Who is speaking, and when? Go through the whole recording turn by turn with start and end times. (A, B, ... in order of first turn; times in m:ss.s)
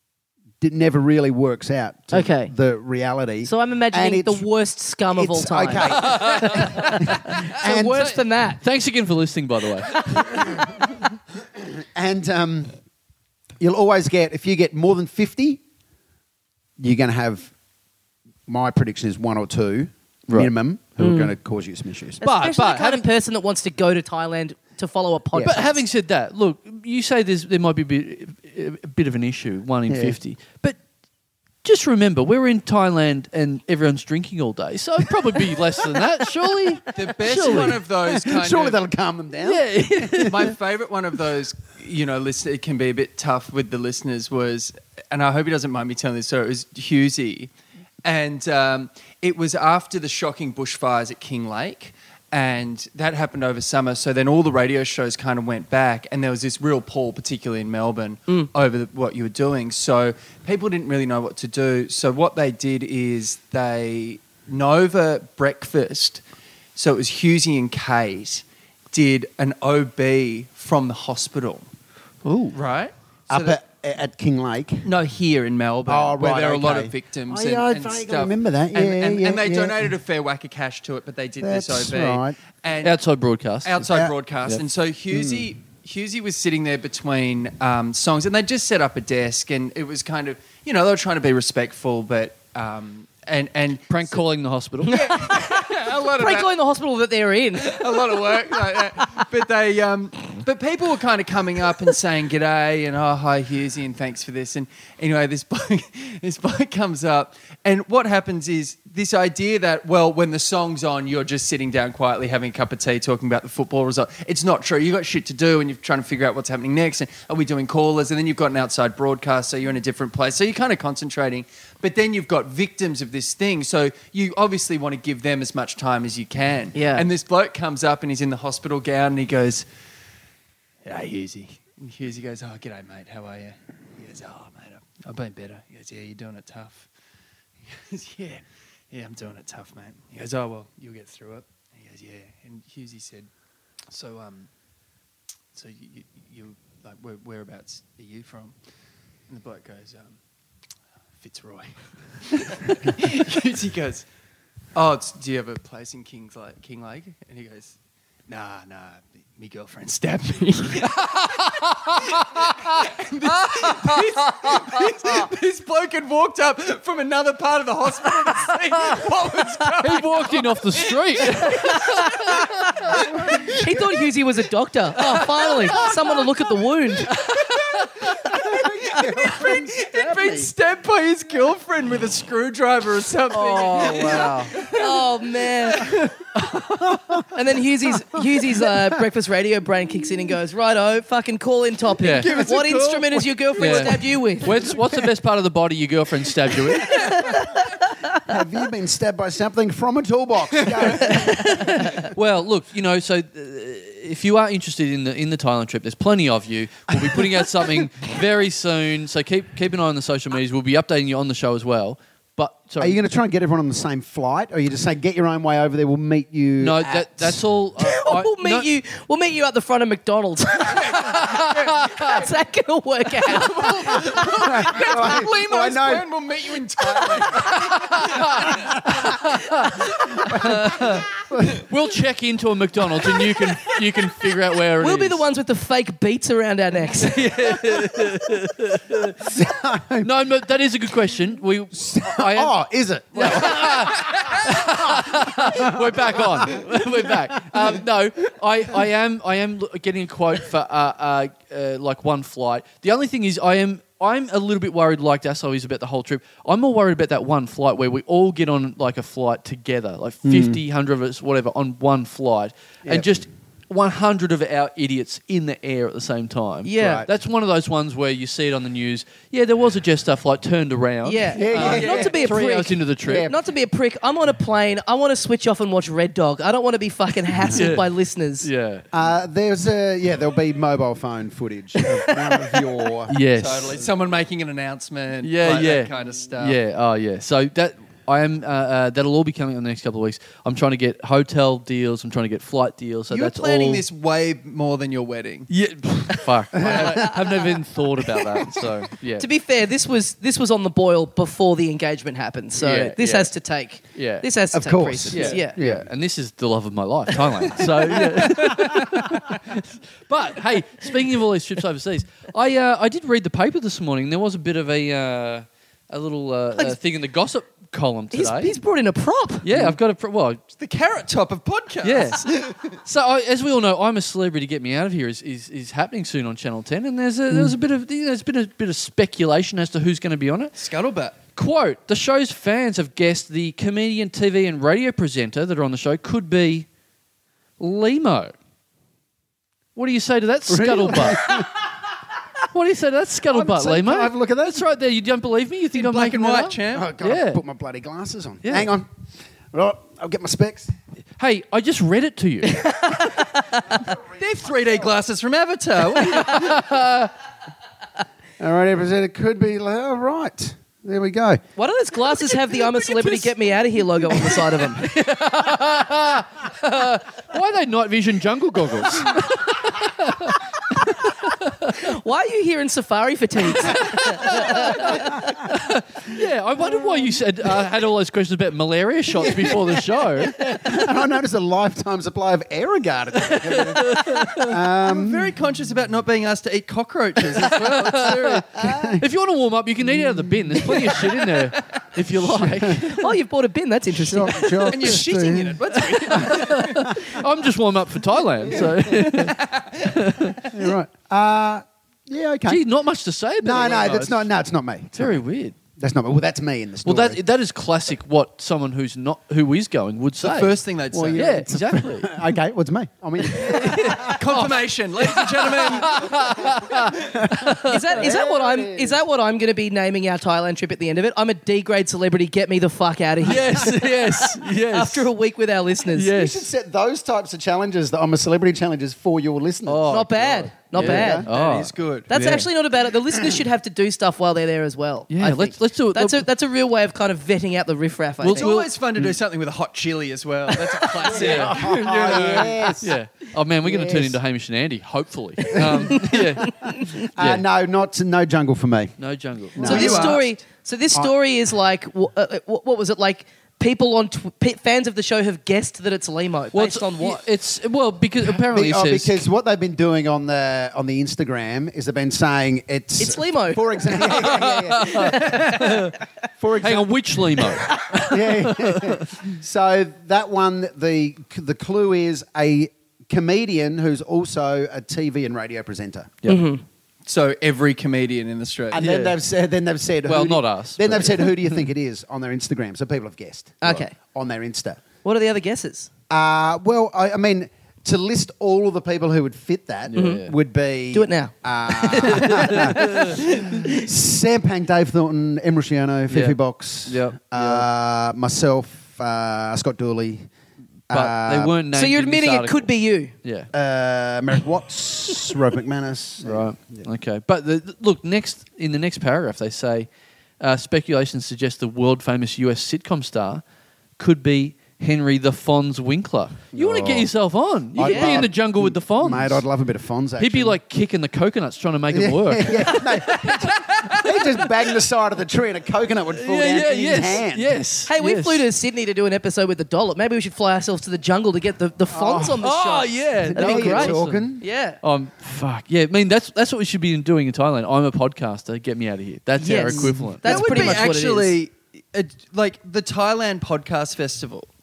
0:00.6-0:04.5 A
0:02.1-0:02.5 B
0:03.4-0:08.6 B
0:05.1-0:08.1 A
0:05.8-0:10.4 C
0:10.1-0:10.9 A
0:11.6-0:12.8 A
0:13.6-0:15.6 A
0:16.8-0:17.5 A
0:18.5-0:22.2 A
0:21.0-0:21.3 B
0:22.2-0:23.1 C
0:22.2-0:25.8 B
0:25.4-0:30.8 C
0:29.9-0:30.2 A
0:31.6-0:37.8 C
0:36.9-0:38.8 D
0:37.5-0:40.5 A
0:39.4-0:40.5 C
0:40.2-0:47.5 D
0:48.0-1:06.2 D
1:06.8-1:11.7 D
1:12.2-1:12.6 C
1:12.5-1:13.6 D
1:13.3-1:14.9 A
1:14.8-1:23.0 D
1:15.9-1:19.9 A
1:21.4-1:22.4 A
1:22.8-1:23.9 C
1:23.6-1:34.2 D
1:23.9-1:24.1 A
1:25.1-1:25.5 A
1:33.9-1:35.1 C
1:34.9-1:38.8 B
1:34.9-1:36.5 D
1:37.6-2:09.6 D
2:06.8-2:07.1 B
2:10.8-2:16.9 D
2:17.7-2:23.3 D
2:23.9-2:24.5 D
2:25.5-2:28.6 D
2:29.3-2:30.2 D
2:31.2-2:34.1 D
2:34.8-2:37.8 D
2:38.3-2:53.5 D
2:41.0-2:42.9 C
2:43.6-2:44.6 C
2:49.8-2:53.0 C
2:51.7-2:57.2 B
2:52.9-2:53.8 A
2:55.1-2:56.0 D
2:57.2-2:58.1 C
2:58.0-3:00.5 A
2:58.3-3:06.2 D
3:03.3-3:04.5 C
3:04.2-3:06.0 B
3:06.5-3:07.3 A
3:07.3-3:14.8 B
3:12.0-3:12.3 C
3:12.2-3:14.0 D
3:13.6-3:17.3 C
3:16.9-3:17.6 B
3:18.1-3:22.1 A
3:20.6-3:21.1 D
3:21.0-3:22.0 B
3:21.8-3:33.0 C
3:32.8-3:37.4 A
3:36.6-3:38.7 C
3:37.8-3:45.2 B
3:40.6-3:42.2 D
3:41.0-3:42.2 C
3:43.2-3:49.0 D
3:44.2-3:46.1 A
3:46.8-3:47.6 A
3:47.5-3:55.2 C
3:48.5-3:49.1 A
3:50.2-3:51.7 A
3:54.8-3:57.9 B
3:57.0-3:59.3 C
3:59.2-4:00.1 A
4:00.0-4:02.6 C
4:01.7-4:07.8 A
4:03.1-4:33.3 C
4:20.2-4:20.6 A
4:26.6-4:27.1 B
4:26.8-4:27.1 A
4:31.0-4:38.5 B
4:31.3-4:32.4 A
4:31.6-4:32.1 D
4:33.0-4:33.4 A
4:37.4-4:37.7 A
4:37.5-4:37.9 C
4:38.4-4:38.9 C
4:38.9-4:43.2 A
4:43.1-4:43.8 C
4:43.4-4:46.6 D
4:45.2-4:53.8 C
4:53.1-4:55.5 D
4:55.5-4:59.3 C
4:56.6-4:57.1 A
4:56.8-4:57.3 B
4:59.2-5:05.6 B
5:02.6-5:03.3 C
5:04.0-5:04.3 C
5:04.5-5:05.9 A
5:05.1-5:18.6 C
5:08.5-5:08.8 A
5:18.1-5:19.5 B
5:19.4-5:20.4 C
5:20.6-5:22.8 D
5:21.8-5:30.5 C
5:30.6-5:31.2 D
5:31.4-5:36.7 C
5:37.6-5:38.3 C
5:39.8-5:41.4 C
5:40.5-5:41.7 A
5:42.5-5:47.4 C
5:43.3-5:44.6 A
5:45.7-5:46.9 D
5:46.7-5:48.9 A
5:48.4-5:48.7 C
5:49.5-5:50.7 A
5:51.2-5:52.8 C
5:52.4-5:53.8 B
5:53.9-5:56.6 D
5:56.0-5:57.1 C
5:58.4-6:01.4 A
6:01.6-6:04.9 B
6:04.6-6:11.8 C
6:11.7-6:15.3 B
6:13.7-6:20.7 C
6:14.8-6:15.2 A
6:19.2-6:25.3 A
6:23.5-6:24.6 C
6:24.7-6:28.2 D
6:27.4-6:33.1 C
6:27.4-6:29.0 A
6:29.9-6:31.1 A
6:32.2-6:32.9 A
6:32.8-6:34.8 B
6:33.9-6:35.6 A
6:34.7-6:36.9 D
6:35.9-6:40.5 C
6:36.1-6:37.2 A
6:39.0-6:40.0 D
6:40.4-6:42.6 A
6:42.4-6:44.3 C
6:43.4-6:45.2 A
6:45.0-6:45.6 C
6:45.8-6:47.2 A
6:46.8-6:50.6 C
6:50.2-6:51.4 D
6:50.9-6:54.2 A
6:51.1-6:52.2 C
6:53.2-6:58.0 C
6:53.6-6:56.2 D
6:55.8-6:59.0 A
6:57.6-7:06.1 B
7:03.2-7:05.1 C
7:05.9-7:06.5 C
7:06.1-7:10.1 A
7:09.7-7:12.5 C
7:09.9-7:11.3 B
7:10.8-7:11.3 A
7:11.3-7:12.1 D
7:12.1-7:18.5 B
7:15.1-7:16.3 C
7:18.2-7:18.7 C
7:18.3-7:22.8 D
7:20.5-7:21.1 B
7:21.0-7:27.4 C
7:21.1-7:23.0 A
7:23.6-7:24.2 A
7:25.4-7:29.0 A
7:25.9-7:27.0 B
7:29.0-7:30.1 C
7:29.6-7:30.3 A
7:29.6-7:37.2 B
7:29.6-7:30.2 D
7:36.5-7:39.2 C
7:38.2-7:46.9 A
7:43.0-7:45.9 B
7:44.2-7:46.0 C
7:46.6-7:49.1 C
7:47.7-7:56.2 A
7:56.2-7:56.5 C
7:56.3-7:56.6 B
7:57.1-7:58.8 D
7:58.7-8:04.8 A
7:58.7-7:59.2 C
8:00.0-8:01.7 C
8:03.6-8:03.9 B
8:05.0-8:05.9 B
8:06.1-8:20.3 A
8:09.9-8:10.3 C
8:10.0-8:10.3 B
8:10.9-8:13.8 B
8:12.2-8:13.2 C
8:16.1-8:17.7 C
8:20.9-8:21.6 A
8:20.9-8:22.7 C
8:21.7-8:23.1 B
8:23.2-8:23.5 C
8:23.5-8:26.9 A
8:26.2-8:29.9 C
8:30.4-8:33.4 C
8:34.0-8:39.4 C
8:36.5-8:37.1 A
8:37.8-8:40.6 A
8:37.8-8:38.3 B
8:40.2-8:44.5 C
8:41.9-8:47.6 A
8:46.1-8:48.5 C
8:47.9-8:54.8 B
8:51.9-8:52.5 A
8:52.4-8:54.3 C
8:53.2-8:54.4 A
8:54.8-9:00.8 C
8:59.4-9:01.4 B
8:59.5-9:00.2 A
9:00.2-9:04.5 D